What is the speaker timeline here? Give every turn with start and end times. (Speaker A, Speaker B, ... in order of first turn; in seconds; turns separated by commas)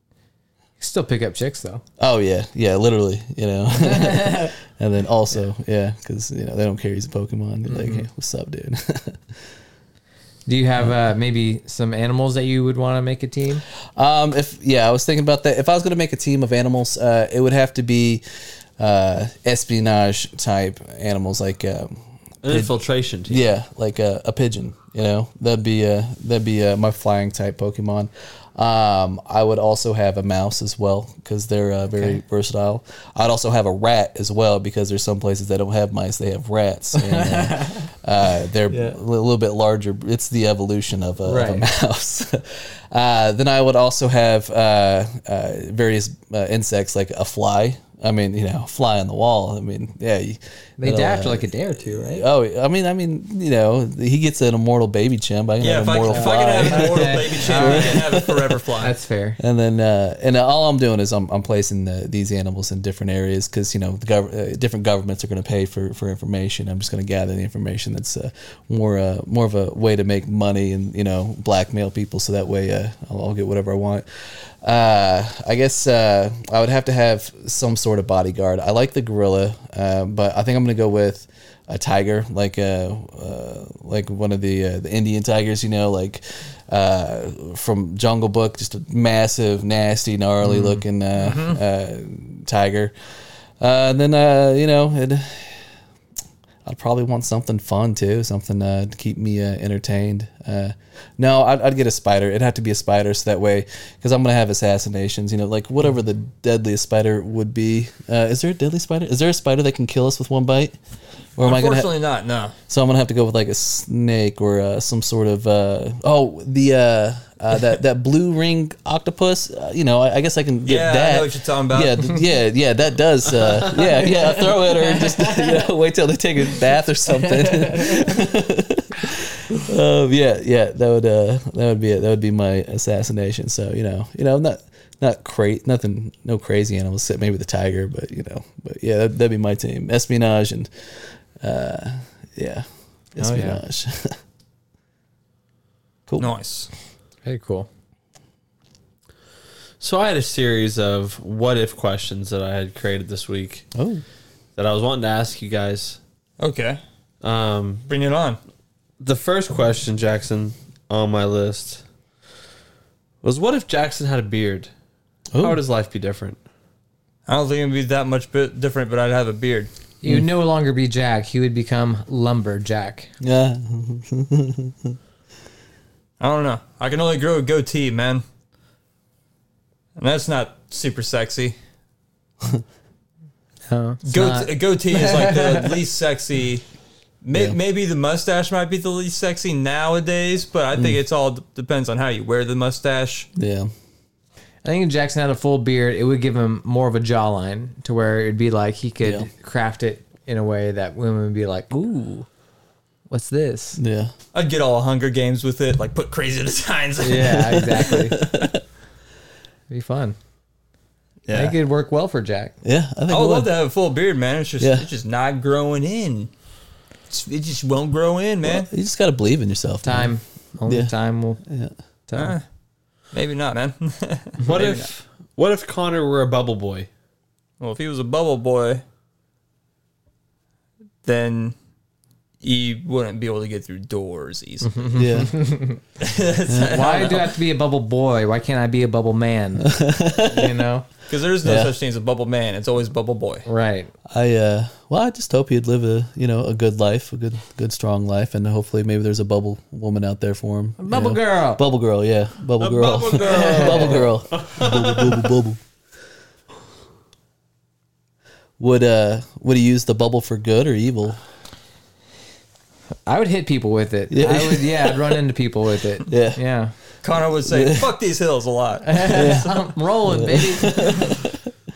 Speaker A: 0.8-1.8, Speaker B: 2.0-9.2, Speaker A: 3.8-4.5, Speaker A: 7.7-8.1, Speaker A: 10.4-13.6, Speaker B: 13.9-18.2, Speaker B: 18.8-22.7, Speaker C: 22.4-23.4, Speaker B: 23.3-58.6, Speaker A: 37.0-37.9, Speaker A: 38.7-39.0, Speaker A: 41.2-41.6, Speaker A: 50.8-52.2, Speaker D: 55.6-58.9, Speaker A: 56.1-58.0, Speaker A: 58.8-59.4, Speaker B: 59.4-92.9, Speaker A: 90.4-90.8, Speaker D: 91.2-91.6, Speaker B: 93.6-95.6, Speaker B: 96.6-110.8, Speaker B: 111.4-111.9, Speaker D: 111.4-112.5, Speaker B: 112.7-144.2, Speaker D: 120.7-122.1, Speaker A: 124.9-125.6, Speaker A: 127.2-128.1, Speaker A: 143.2-143.6, Speaker D: 146.2-146.7, Speaker A: 147.2-147.7, Speaker C: 149.8-153.7, Speaker B: 153.7-154.0, Speaker C: 154.6-156.0, Speaker D: 156.4-156.8, Speaker C: 157.2-157.9, Speaker D: 157.9-158.4, Speaker C: 159.0-161.8, Speaker C: 163.2-164.7, Speaker B: 165.3-165.6, Speaker C: 165.4-166.4, Speaker D: 167.3-169.7, Speaker A: 170.0-173.1, Speaker B: 173.2-175.0, Speaker D: 176.2-178.2, Speaker D: 179.9-181.6, Speaker A: 183.7-185.7, Speaker D: 184.1-186.6, Speaker D: 187.2-193.3, Speaker B: 190.7-191.0, Speaker B: 193.3-193.7, Speaker A: 194.6-202.3, Speaker B: 199.0-199.3, Speaker A: 203.1-203.8, Speaker B: 203.8-204.1, Speaker D: 204.3-207.6, Speaker A: 207.0-208.2, Speaker B: 207.4-208.6, Speaker A: 209.7-210.2, Speaker D: 211.2-211.6, Speaker A: 211.3-212.5, Speaker B: 212.6-213.5, Speaker D: 213.1-216.3, Speaker B: 214.6-214.8, Speaker D: 217.1-218.7, Speaker B: 218.4-220.1, Speaker A: 219.8-221.4, Speaker B: 220.7-221.7, Speaker A: 222.1-222.3, Speaker D: 222.1-222.4, Speaker D: 223.1-224.9, Speaker C: 224.4-226.9, Speaker D: 227.6-228.8, Speaker D: 231.0-231.6, Speaker D: 232.4-234.9, Speaker A: 234.6-235.8, Speaker B: 234.9-235.4, Speaker D: 236.0-237.3, Speaker B: 236.5-236.9, Speaker A: 236.7-240.9, Speaker B: 239.6-240.6, Speaker D: 241.1-243.4, Speaker B: 241.4-241.7, Speaker A: 243.4-243.9, Speaker B: 244.1-255.6, Speaker A: 250.8-251.6, Speaker C: 252.6-255.3, Speaker A: 253.2-254.0, Speaker B: 258.6-261.2, Speaker A: 263.1-266.7, Speaker B: 264.1-265.2, Speaker B: 266.1-266.4, Speaker D: 267.0-269.4, Speaker B: 267.5-267.9, Speaker A: 268.8-271.1, Speaker B: 269.1-271.4